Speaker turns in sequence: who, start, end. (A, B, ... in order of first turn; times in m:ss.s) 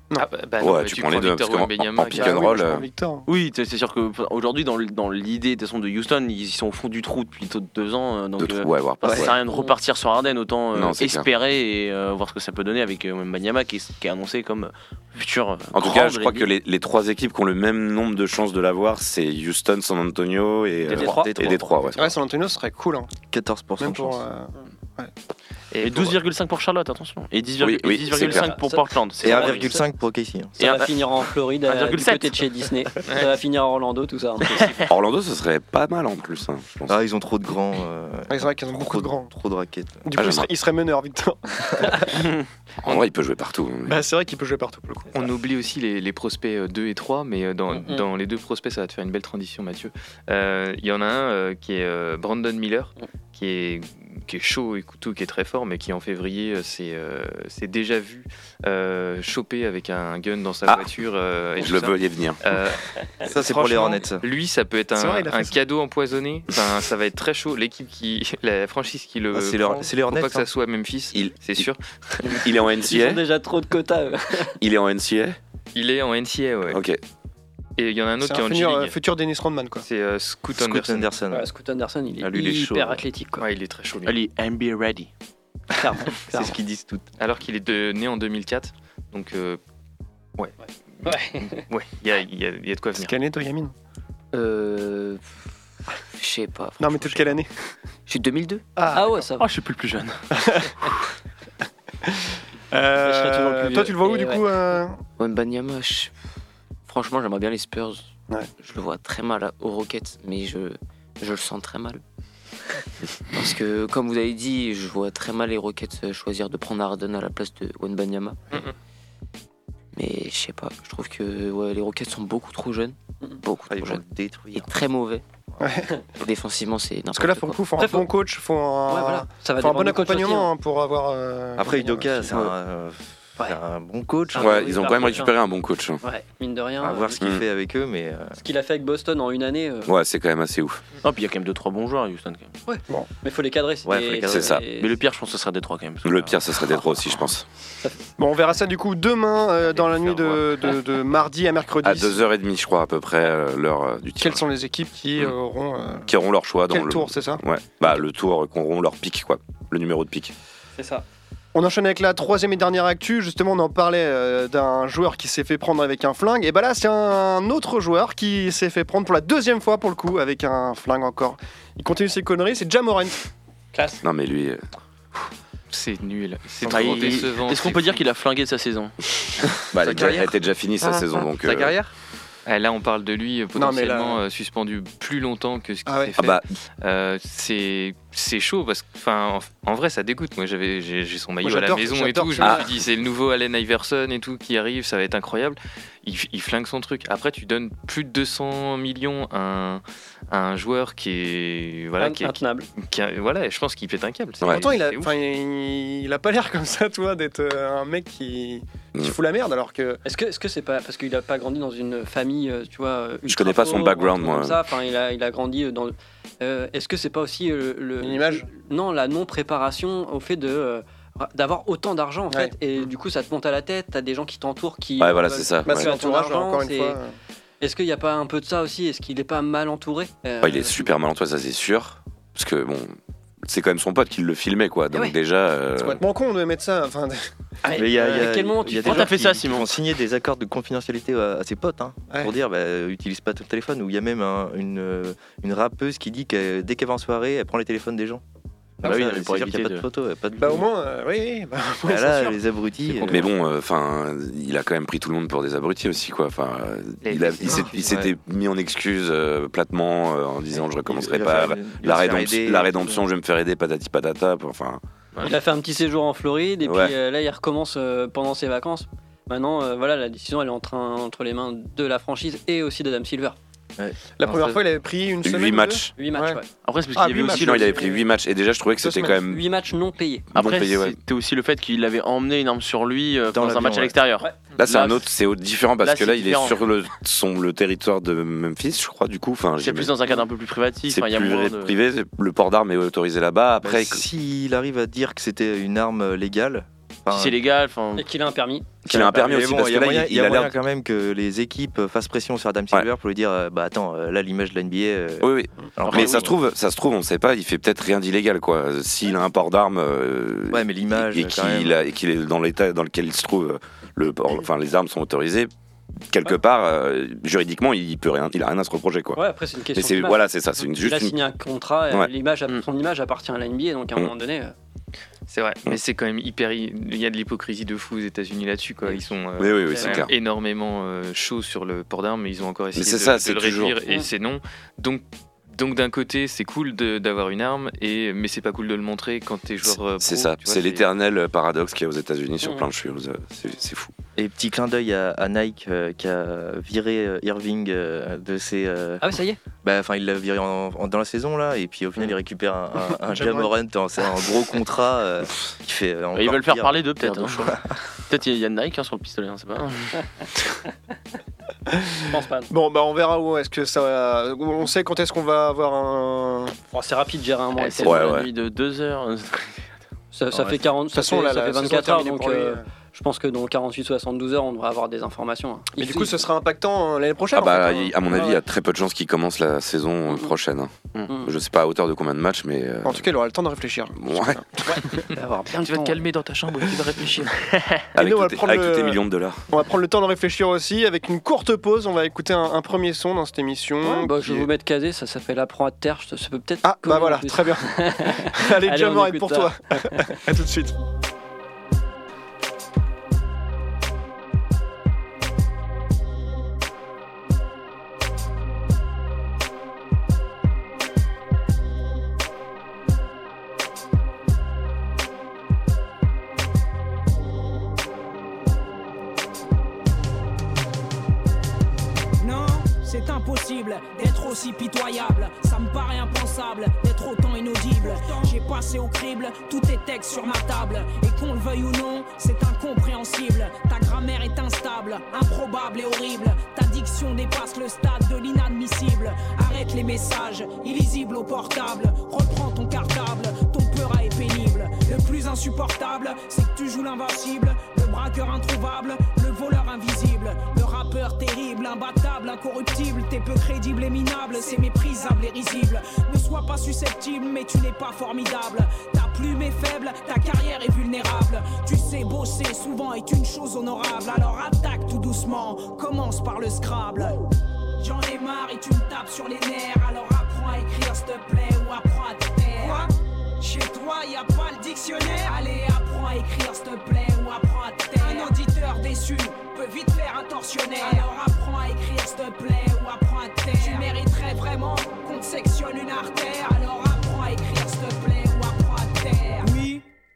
0:00.2-0:02.4 A
0:00.6-0:02.9 B
0:02.1-0:03.3 C
0:03.3-0:16.5 D
0:08.4-0:09.4 B
0:10.7-0:11.3 B
0:15.7-0:22.1 B
0:20.9-0:21.3 E
0:20.9-0:21.8 F
0:22.0-0:23.1 C
0:23.3-0:24.2 F
0:23.8-0:25.1 C
0:25.7-0:26.2 A
0:25.8-0:29.8 D
0:27.6-0:28.5 B
0:28.2-0:29.8 E
0:29.2-0:30.6 F
0:30.6-0:31.0 D
0:30.6-0:34.6 E
0:31.6-0:32.4 D
0:34.9-0:37.0 B
0:36.9-0:40.0 F
0:38.3-0:39.3 C
0:40.0-0:42.3 C
0:40.2-0:40.5 B
0:42.8-0:44.0 B
0:43.9-0:45.1 C
0:45.1-1:12.4 A
1:01.6-1:02.4 B
1:03.2-1:04.2 F
1:05.0-1:05.6 C
1:09.3-1:10.5 F
1:11.1-1:11.7 B
1:12.3-1:13.2 B
1:12.9-1:14.6 E
1:14.6-1:15.4 B
1:15.8-1:16.8 A
1:16.7-1:17.0 B
1:17.8-1:19.0 A
1:18.2-1:19.8 C
1:19.8-1:21.1 A
1:20.6-1:21.5 F
1:21.3-1:23.4 E
1:22.2-1:23.0 F
1:23.4-1:24.2 A
1:24.1-1:25.1 D
1:25.8-1:26.5 E
1:26.3-1:27.0 F
1:27.2-1:29.6 A
1:30.4-1:33.1 A
1:31.0-1:31.6 E
1:33.0-1:33.7 C
1:34.3-1:35.2 G
1:36.1-1:37.3 G
1:36.8-1:37.5 C
1:38.1-1:38.6 G
1:38.8-1:39.2 C
1:38.9-1:39.5 E
1:39.4-1:40.2 D
1:40.4-1:40.8 C
1:42.1-1:45.0 C
1:43.0-1:44.5 E
1:45.2-1:46.1 G
1:46.9-1:52.0 G
1:53.3-1:58.4 G
2:00.0-2:04.0 G
2:03.7-2:04.7 F
2:04.5-2:05.2 G
2:05.6-2:06.0 C
2:06.2-2:07.6 G
2:07.1-2:12.5 C
2:07.8-2:08.1 E
2:08.9-2:10.5 E
2:11.6-2:15.0 F
2:14.3-2:15.4 E
2:14.4-2:16.0 B
2:16.0-2:17.2 E
2:16.8-2:18.4 F
2:18.4-2:19.9 E
2:19.9-2:20.8 B
2:21.0-2:22.5 D
2:22.7-2:24.9 E
2:23.9-2:24.5 F
2:24.3-2:24.6 B
2:24.7-2:26.4 D
2:26.0-2:27.5 B
2:28.2-2:32.2 C
2:31.8-2:34.4 B
2:34.2-2:36.1 C
2:36.1-2:40.3 B
2:36.7-2:37.4 C
2:40.8-2:41.0 E
2:41.5-2:53.2 C
2:53.7-2:54.0 E
2:54.0-2:54.6 B
2:55.7-2:58.0 A
2:56.6-2:59.0 D
2:56.7-2:57.1 C
2:59.7-3:01.8 B
2:59.8-3:00.2 F
3:01.5-3:01.8 F
3:02.5-3:25.1 A
3:03.6-3:04.2 C
3:05.9-3:06.2 C
3:06.2-3:06.5 B
3:11.4-3:12.6 C
3:22.0-3:22.7 E
3:24.5-3:30.0 C
3:30.0-3:47.0 E
3:33.3-3:34.6 B
3:38.0-3:38.5 C
3:45.0-3:45.9 B
3:45.6-3:47.1 C
3:47.6-3:50.9 E
3:50.4-3:56.0 B
3:55.8-3:57.3 C
3:57.6-3:59.1 E
3:57.7-4:08.2 F
3:58.0-3:58.2 D
3:58.8-3:59.8 D
4:08.8-4:10.7 F
4:08.8-4:09.9 D
4:10.4-4:12.4 C
4:11.8-4:13.3 F
4:13.1-4:24.8 B
4:17.0-4:18.0 A
4:20.8-4:23.0 F
4:25.2-4:33.4 E
4:26.6-4:27.0 B
4:33.8-4:34.5 F
4:34.2-4:36.4 C
4:35.2-4:35.9 B
4:36.0-4:36.5 E
4:36.6-4:37.9 D
4:37.0-4:38.0 C
4:37.2-4:39.4 B
4:38.8-4:39.2 C
4:39.2-4:40.3 E
4:40.3-4:41.0 B
4:40.3-4:45.1 D
4:43.3-4:44.0 F
4:44.6-4:50.0 B
4:45.8-4:46.6 D
4:49.6-4:51.8 D
4:50.9-4:54.0 B
4:53.6-4:57.4 F
4:57.1-4:58.1 D
4:58.0-4:58.7 E
4:58.8-5:00.5 B
4:58.9-5:06.3 F
5:05.2-5:15.5 B
5:05.9-5:06.3 D
5:10.5-5:11.8 F
5:16.1-5:19.2 B
5:19.2-5:20.3 E
5:19.7-5:21.2 B
5:20.8-5:24.5 E
5:25.3-5:40.9 A
5:29.4-5:30.1 B
5:29.7-5:30.0 E
5:32.8-5:33.8 B
5:40.0-5:43.9 B
5:42.4-5:42.7 E
5:44.2-5:49.1 F
5:49.0-5:49.4 E
5:49.6-5:57.6 F
5:53.1-5:53.5 C
5:56.2-6:00.0 D
6:01.7-6:02.0 C
6:02.1-6:02.5 E
6:02.5-6:06.6 C
6:06.7-6:08.2 E
6:07.6-6:09.8 D
6:07.8-6:08.3 B
6:10.1-6:16.2 E
6:10.9-6:12.6 C
6:15.8-6:18.4 C
6:17.3-6:23.1 B
6:22.8-6:25.0 C
6:24.0-6:24.4 B
6:24.8-6:26.0 E
6:25.6-6:27.3 A
6:27.6-6:27.9 D
6:28.0-6:29.4 B
6:28.0-6:34.5 C
6:33.8-6:40.2 E
6:36.6-6:40.8 C
7:02.2-7:47.3 H
7:47.8-8:09.8 H